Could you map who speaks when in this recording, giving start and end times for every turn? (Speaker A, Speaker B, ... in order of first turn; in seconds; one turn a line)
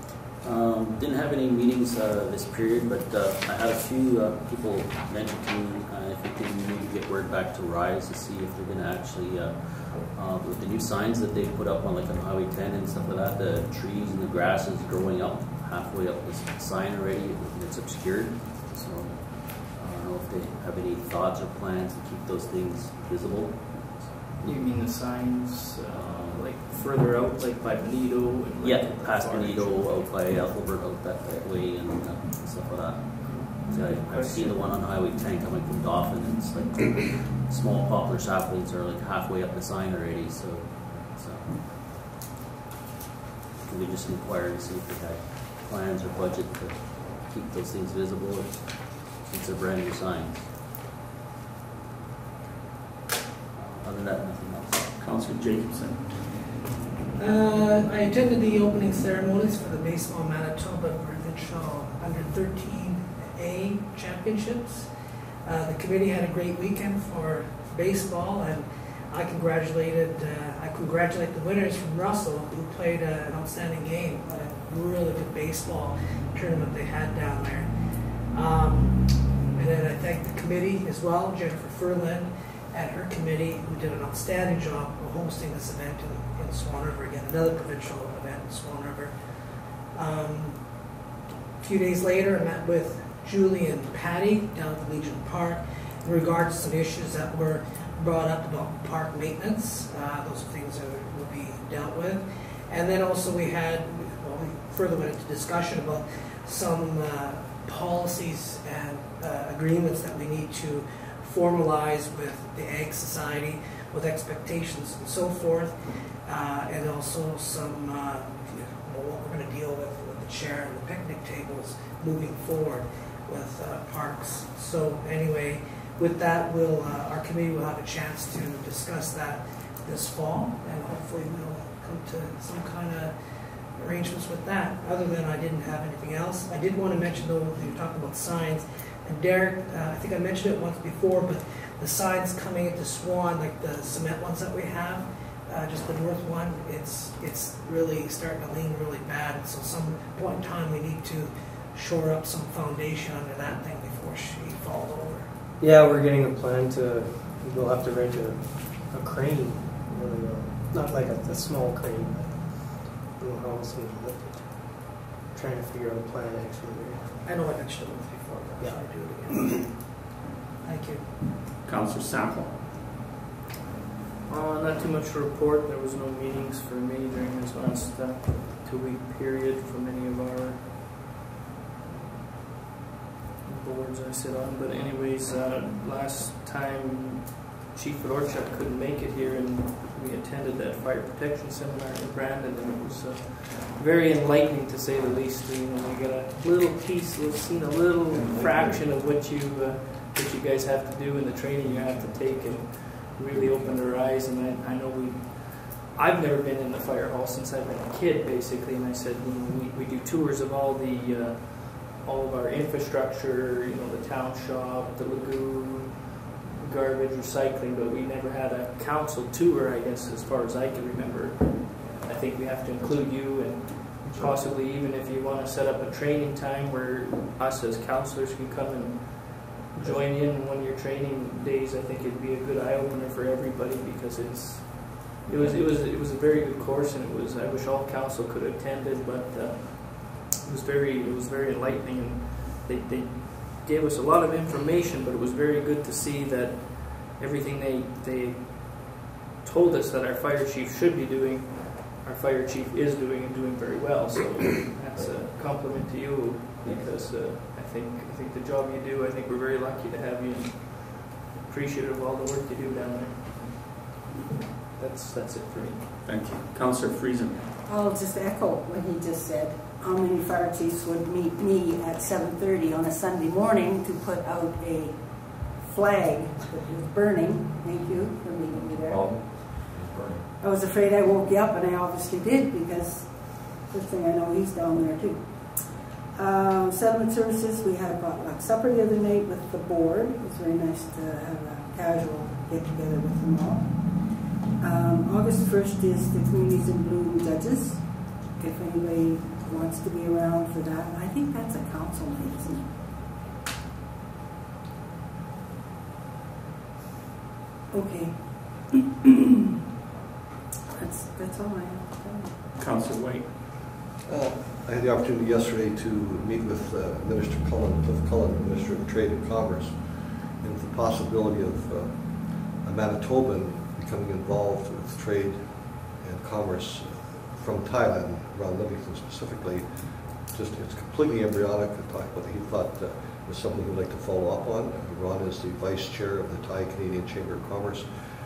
Speaker A: 0.4-24.6
Speaker B: 24.4-30.1
Speaker A: 25.9-26.6
Speaker A: 28.6-41.6
Speaker B: 33.2-34.7
Speaker A: 43.6-50.5
Speaker A: 53.5-55.0
Speaker C: 55.0-56.2
Speaker D: 57.2-64.9
Speaker D: 65.4-77.7
Speaker D: 78.3-89.2
Speaker D: 89.8-91.0
Speaker D: 91.6-133.1
Speaker D: 133.8-155.3
Speaker E: 155.6-167.1
Speaker D: 167.2-169.9
Speaker D: 170.6-171.2
Speaker C: 171.7-172.6
Speaker B: 174.3-180.8
Speaker B: 183.4-263.7
Speaker F: 198.1-199.0
Speaker F: 201.7-202.5
Speaker F: 203.2-203.8
Speaker F: 254.9-255.3
Speaker F: 256.6-257.1
Speaker B: 264.7-265.9
Speaker C: 266.0-267.5
Speaker G: 267.6-279.1
Speaker F: 278.5-280.3
Speaker G: 280.4-302.8
Speaker G: 307.7-309.2
Speaker G: 310.7-312.4
Speaker C: 312.6-313.3
Speaker H: 314.1-337.9